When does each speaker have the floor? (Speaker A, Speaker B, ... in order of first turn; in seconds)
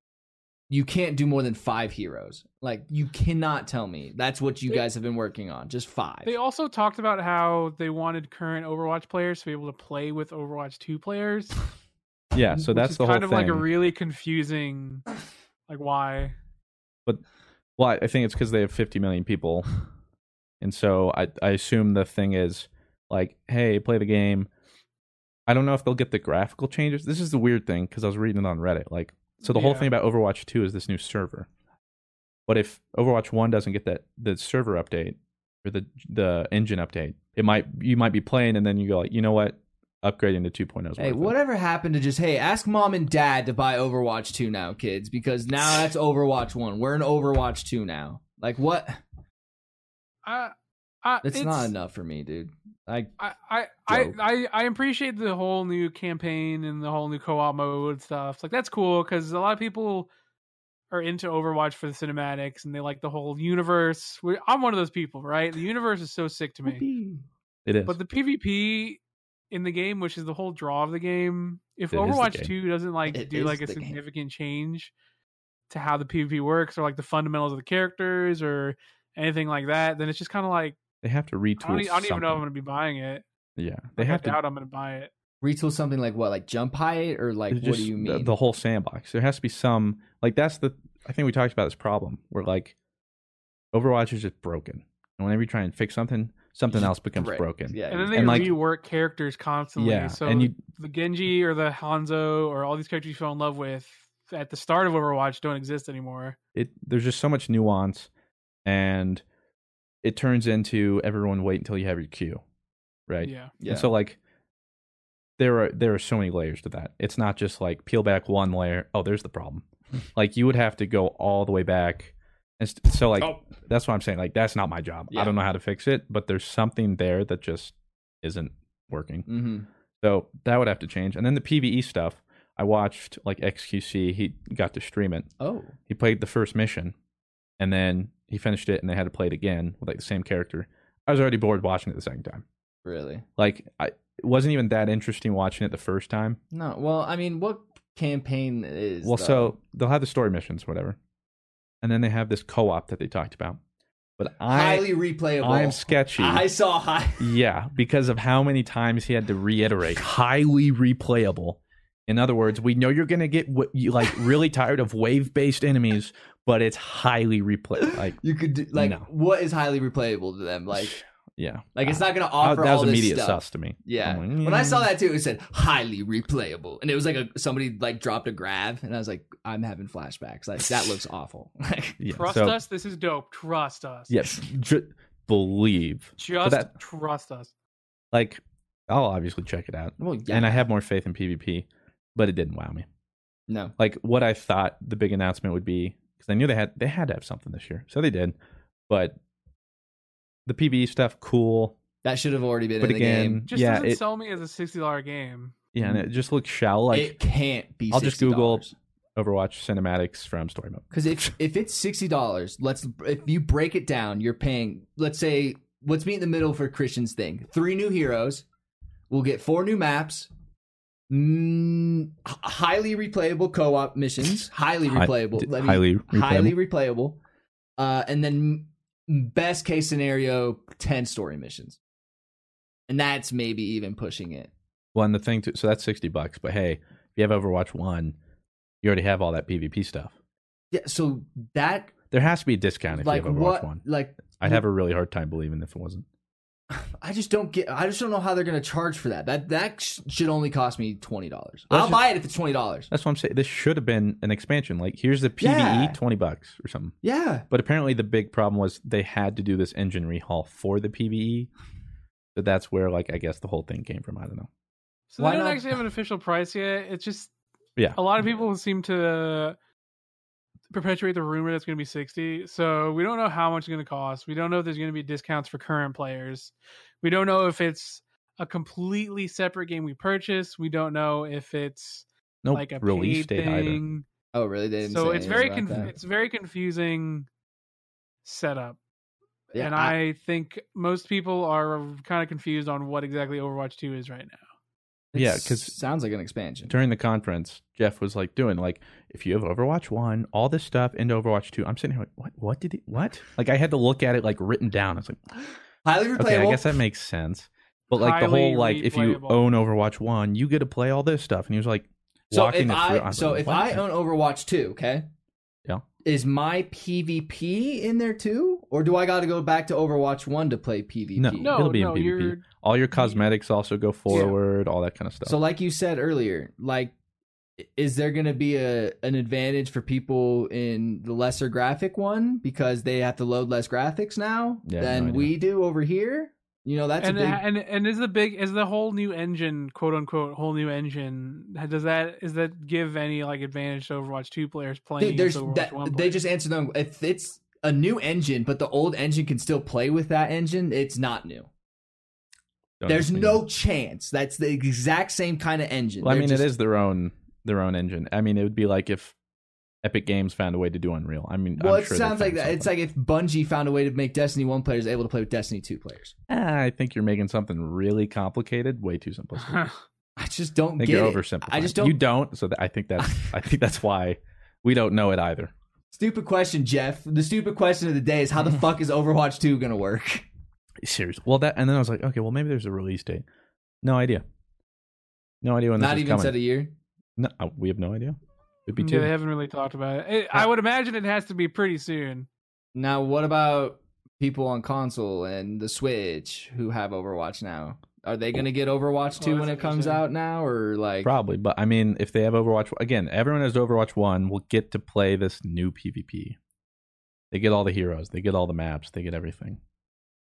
Speaker A: 0.7-6.3, 41.0-49.0, 51.2-53.1, 66.8-67.2, 73.1-74.0, 85.4-88.3, 96.7-98.5, 113.6-113.9, 129.3-129.7, 135.4-135.7, 142.8-143.2, 146.5-149.5, 154.5-157.3, 167.8-171.0, 171.7-182.0, 190.0-190.7, 193.5-193.7, 202.0-203.4, 206.9-208.7, 210.9-218.4, 219.1-220.3, 221.1-227.2, 227.8-231.8, 232.9-234.5, 240.7-241.9, 242.9-244.6, 246.7-252.9, 255.4-256.0, 257.0-257.5, 265.2-265.8, 284.3-285.9, 289.5-289.9, 295.1-296.7, 305.8-306.7, 312.3-315.1, 316.0-321.6, 325.2-326.9, 327.6-337.4, 345.0-351.5, 352.9-356.5, 361.6-366.1, 370.2-372.0, 373.0-373.3, 375.9-380.2, 385.8-386.7, 392.7-401.1
Speaker B: 6.2-11.6, 12.6-15.1, 15.7-16.3, 29.4-29.9, 50.2-51.7, 53.2-60.1, 60.9-66.8, 67.9-69.0, 69.5-74.9, 75.7-80.8, 81.6-83.2, 84.0-85.1, 97.9-106.4, 113.2-113.5, 182.1-184.1, 186.2-187.5, 203.5-205.6, 265.1-267.3, 267.9-269.6, 270.7-284.0, 284.8-287.3, 288.2-288.8, 289.5-294.4, 307.9-309.4, 321.4-322.4, 322.9-323.2, 324.1-324.3, 337.0-346.2, 369.5-369.7, 388.8-392.3, 399.2-400.0
Speaker C: 12.3-13.7, 17.8-19.7, 20.6-24.5, 25.5-31.5, 32.5-41.3, 67.6-68.0, 71.9-72.5, 81.0-82.4, 83.6-84.4, 87.5-92.7, 93.7-98.5, 99.8-100.6, 106.5-108.1, 108.6-109.2, 110.0-112.4, 113.1-114.2, 115.4-129.3, 130.0-135.3, 135.9-136.9, 137.6-142.4, 143.4-146.4, 149.0-151.0, 151.8-153.6, 154.2-154.9, 155.4-156.5, 157.2-168.2, 168.7-169.1, 170.7-174.9, 182.0-182.6, 184.1-186.7, 188.1-192.8, 193.8-198.3, 198.9-199.2, 200.4-201.8, 202.8-204.0, 205.7-207.2, 207.9-208.6, 209.2-210.8, 224.9-226.5, 234.9-238.2, 238.8-240.1, 242.1-246.0, 251.7-252.0, 252.9-256.9, 257.5-261.5, 262.3-264.5, 282.4-283.8, 295.1-295.7, 296.7-305.2, 306.2-313.8, 321.1-325.4, 334.6-335.3, 352.8-353.4, 356.0-359.1, 359.8-362.7, 366.3-369.7, 370.8-375.5, 380.8-383.2, 383.8-384.2, 385.4-386.4, 387.2-389.1, 401.0-406.4, 407.3-409.6